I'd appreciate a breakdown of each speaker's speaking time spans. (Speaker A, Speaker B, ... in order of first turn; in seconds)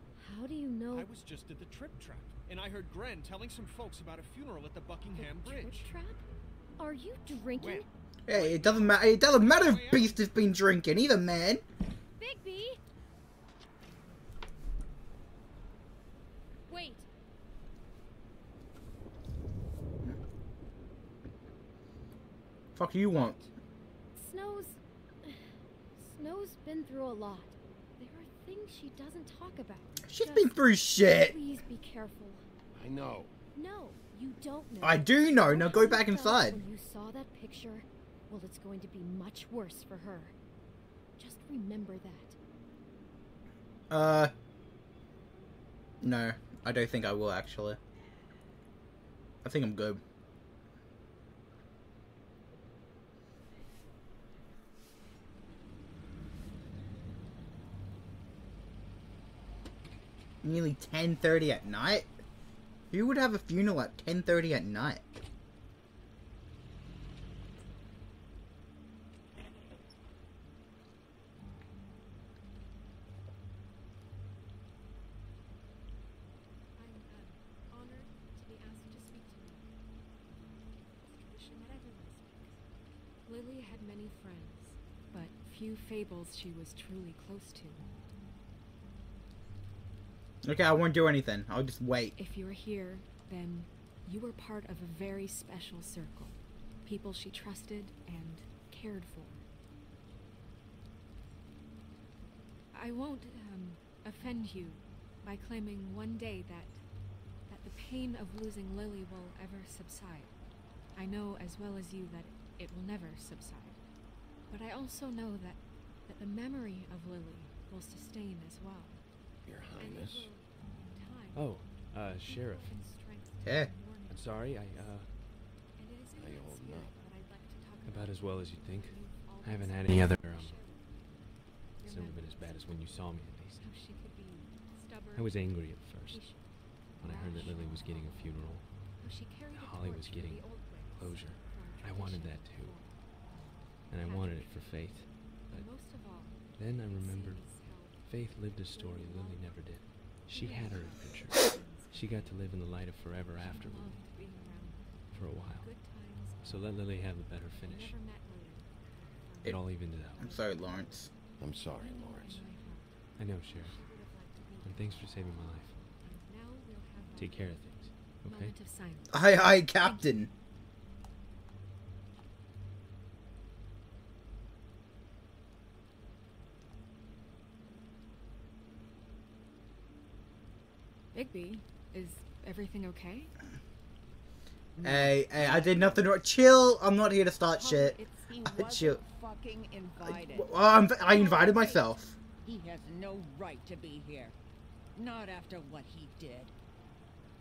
Speaker A: 0.2-1.1, 5.1-6.2, 6.8-7.9, 12.2-12.8, 16.7-17.1, 24.1-32.5, 33.5-40.3, 41.2-42.4
Speaker B: 0.9-5.9, 8.3-10.2
Speaker C: 8.3-11.6, 22.8-23.5, 30.0-31.4, 34.8-36.6, 43.9-44.3, 46.0-47.8, 49.4-50.0, 60.4-62.1, 62.9-65.0, 90.4-92.1, 123.4-123.7, 160.2-161.1, 169.1-170.3, 184.8-189.0, 190.0-192.2
Speaker D: 32.7-33.3, 119.4-120.3, 126.1-127.0, 161.4-162.4
Speaker E: 76.8-79.7, 81.0-87.8, 92.2-99.4, 102.7-106.8, 107.5-110.3, 110.9-113.8, 114.5-119.0, 119.8-125.1, 125.8-130.9, 131.8-132.9, 133.5-138.3, 139.0-152.3, 153.3-156.6, 157.6-161.1, 161.8-165.1, 165.9-170.1, 181.1-183.3
Speaker F: 121.3-122.8, 124.1-125.1, 127.8-130.6, 131.8-133.7, 135.1-136.4, 137.0-138.7, 139.5-142.8, 143.9-145.8, 146.6-154.1, 155.1-155.7, 156.4-158.0, 159.4-160.3, 163.2-163.8, 164.6-165.8, 167.2-168.6
Speaker G: 184.8-186.0, 187.6-191.8, 192.4-194.3, 194.9-196.5